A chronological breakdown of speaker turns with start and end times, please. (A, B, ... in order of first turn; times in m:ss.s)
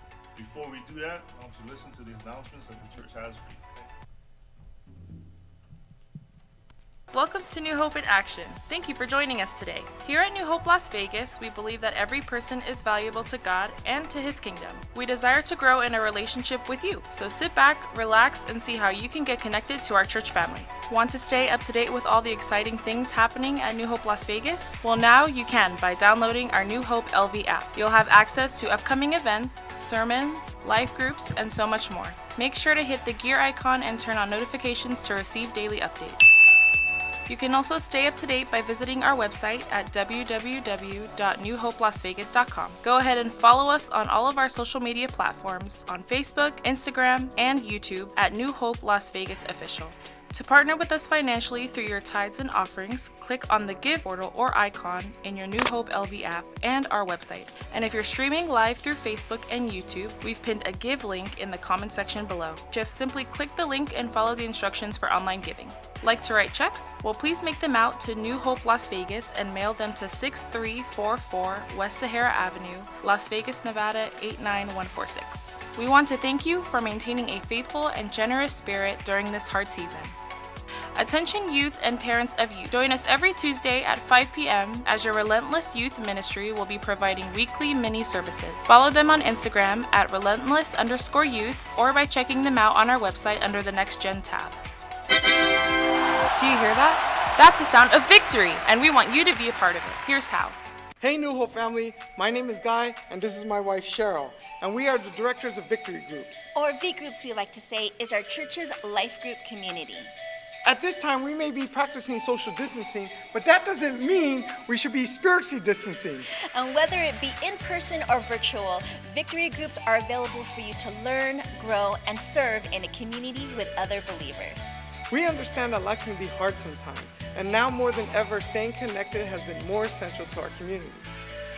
0:00.4-0:03.9 A
0:07.1-0:36.5 B
0:37.3-1:20.2 B
1:20.9-1:34.6 B
1:36.4-1:40.6 B
1:41.0-1:46.5 C
1:46.5-1:50.1 D
1:50.6-1:56.3 C
1:56.4-2:04.8 D
2:05.1-2:11.1 C